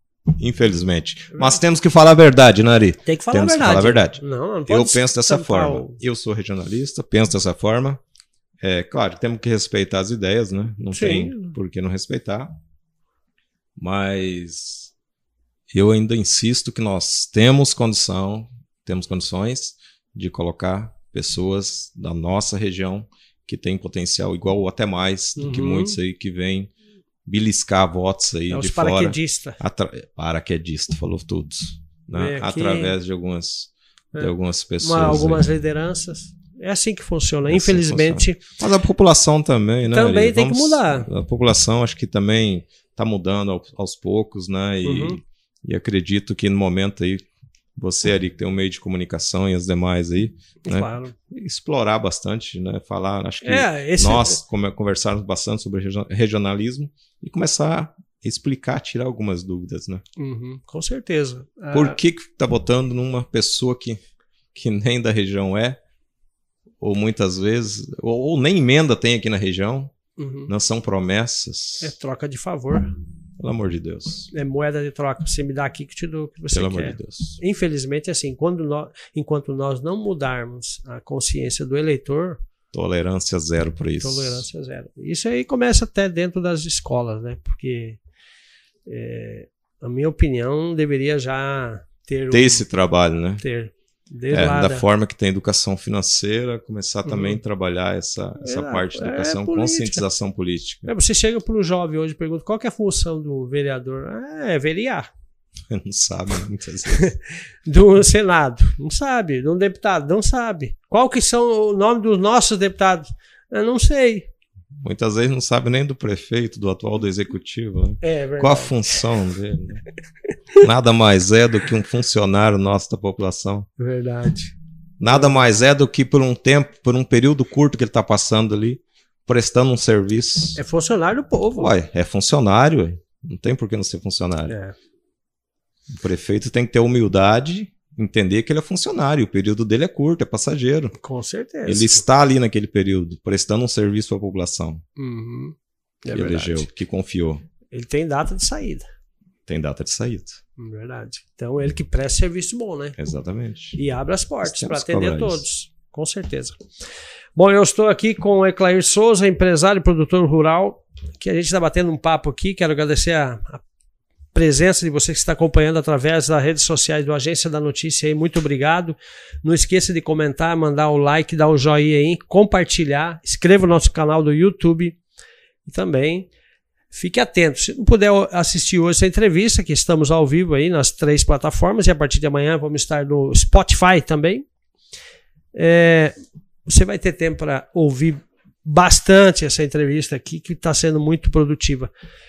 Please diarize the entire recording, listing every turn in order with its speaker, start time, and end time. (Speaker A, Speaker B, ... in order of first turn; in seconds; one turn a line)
Speaker A: 0.3-8.0
Speaker B: 3.0-6.0
Speaker A: 8.6-12.6
Speaker B: 10.9-11.6
Speaker A: 13.8-14.9
Speaker A: 15.7-26.7
Speaker B: 25.4-26.0
Speaker A: 27.3-35.5
Speaker B: 28.5-29.6
Speaker B: 32.1-32.9
Speaker B: 34.1-38.4
Speaker A: 37.5-47.2
Speaker B: 39.9-41.1
Speaker B: 44.8-45.2
Speaker A: 47.8-60.0
Speaker B: 50.6-51.1
Speaker B: 53.4-54.4
Speaker B: 60.2-62.0
Speaker A: 61.7-64.0
Speaker A: 64.5-65.8
Speaker A: 66.8-69.9
Speaker B: 70.2-70.5
Speaker A: 70.5-71.9
Speaker B: 71.8-72.9
Speaker A: 73.4-74.3
Speaker B: 74.3-82.4
Speaker A: 76.5-77.4
Speaker A: 82.7-84.5
Speaker B: 84.0-88.0
Speaker B: 88.9-92.7
Speaker A: 92.3-93.4
Speaker B: 93.4-94.8
Speaker A: 94.3-100.9
Speaker B: 97.1-97.4
Speaker B: 98.4-100.0
Speaker B: 100.8-105.1
Speaker A: 105.7-107.1
Speaker B: 106.9-114.3
Speaker A: 114.8-119.8
Speaker B: 118.0-118.8
Speaker A: 120.6-123.7
Speaker B: 123.8-124.5
Speaker A: 125.0-130.6
Speaker B: 130.6-131.7
Speaker A: 131.6-134.6
Speaker B: 134.5-134.8
Speaker A: 135.9-140.9
Speaker B: 141.0-142.1
Speaker A: 141.7-144.8
Speaker B: 145.0-146.7
Speaker A: 146.1-147.4
Speaker B: 147.7-148.9
Speaker A: 149.5-150.4
Speaker B: 150.6-153.0
Speaker A: 153.0-153.8
Speaker B: 153.8-156.6
Speaker A: 154.4-155.4
Speaker B: 157.4-163.6
Speaker B: 164.3-175.0
Speaker B: 175.7-176.3
Speaker B: 176.9-184.5
Speaker B: 185.6-186.2
Speaker B: 186.7-191.9